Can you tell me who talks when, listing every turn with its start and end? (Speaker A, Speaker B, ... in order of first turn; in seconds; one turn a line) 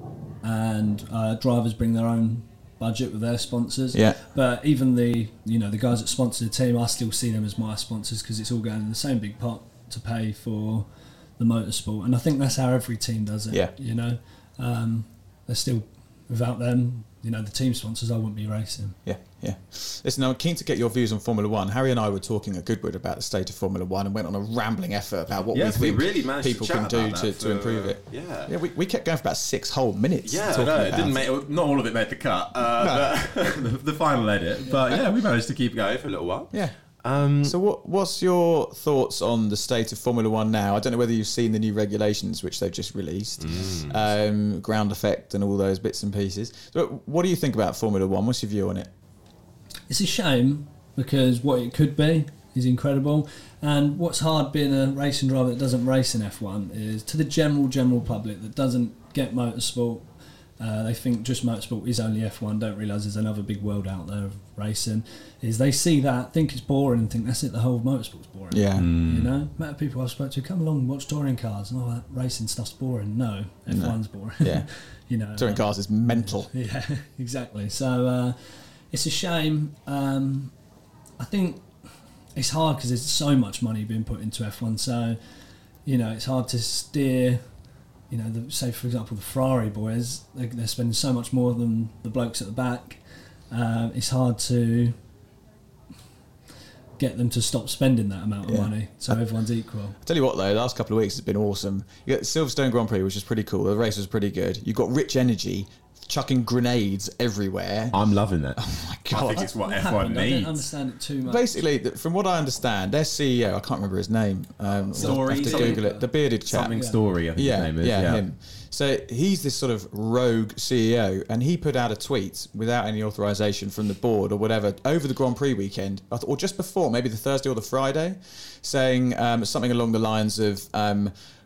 Speaker A: 0.4-10.9
Speaker A: 11.4-19.0
Speaker B: 19.1-31.3
Speaker C: 25.5-28.5
Speaker C: 30.2-37.6
Speaker B: 32.8-33.1
Speaker B: 37.4-48.9
Speaker C: 43.4-44.0
Speaker A: 49.9-60.1
Speaker A: 60.6-80.5
Speaker B: 68.5-68.9
Speaker C: 68.8-69.3
Speaker B: 73.7-74.7
Speaker B: 75.4-76.5
Speaker A: 81.2-81.7
Speaker A: 82.4-85.2
Speaker A: 85.9-87.4
Speaker A: 88.1-95.0
Speaker A: 97.0-100.0
Speaker B: 98.5-99.2
Speaker B: 100.0-108.0
Speaker C: 107.9-110.7
Speaker B: 108.6-109.5
Speaker A: 109.3-111.6
Speaker B: 111.2-116.8
Speaker C: 114.9-115.9
Speaker A: 115.0-116.1
Speaker C: 116.5-118.2
Speaker A: 116.7-117.0
Speaker B: 117.3-131.1